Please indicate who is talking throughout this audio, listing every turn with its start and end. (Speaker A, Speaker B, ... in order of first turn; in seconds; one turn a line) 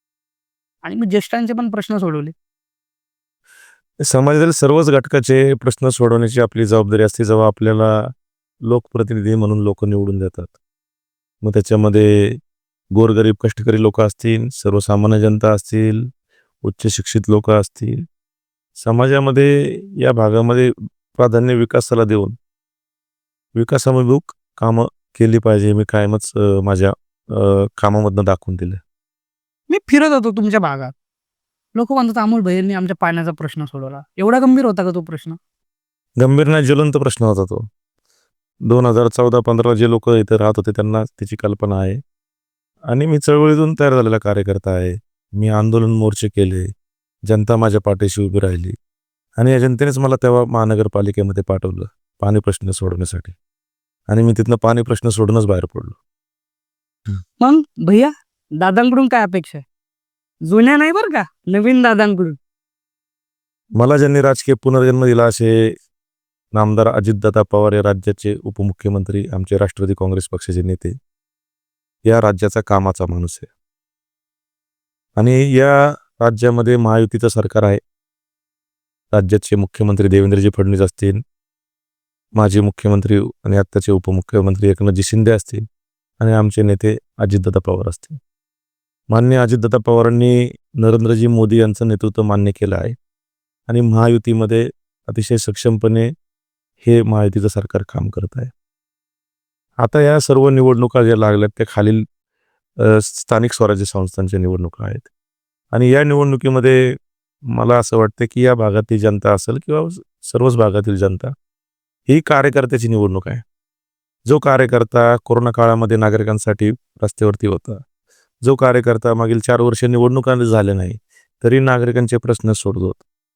Speaker A: 0.8-2.3
Speaker B: 4.0-8.1
Speaker B: 8.7-10.6
Speaker B: 11.4-12.4
Speaker B: 12.9-16.1
Speaker B: 16.6-18.0
Speaker B: 18.8-22.4
Speaker B: 23.6-28.8
Speaker A: 29.7-30.9
Speaker A: 31.7-35.4
Speaker B: 36.2-37.7
Speaker B: 38.6-42.0
Speaker B: 42.9-46.7
Speaker B: 47.3-48.8
Speaker B: 49.4-53.4
Speaker B: 54.1-56.0
Speaker A: 57.4-59.6
Speaker A: 60.5-62.4
Speaker B: 63.8-65.7
Speaker B: 66.5-71.0
Speaker B: 72.0-73.5
Speaker B: 75.2-77.8
Speaker B: 79.1-81.2
Speaker B: 82.4-85.6
Speaker B: 86.2-88.2
Speaker B: 89.1-93.0
Speaker B: 93.7-96.1
Speaker B: 96.8-98.5
Speaker B: 99.8-102.0
Speaker B: 102.8-105.1
Speaker B: 105.7-107.0
Speaker B: 107.5-111.3
Speaker B: 112.1-113.4
Speaker B: 114.3-117.8
Speaker B: 118.5-123.0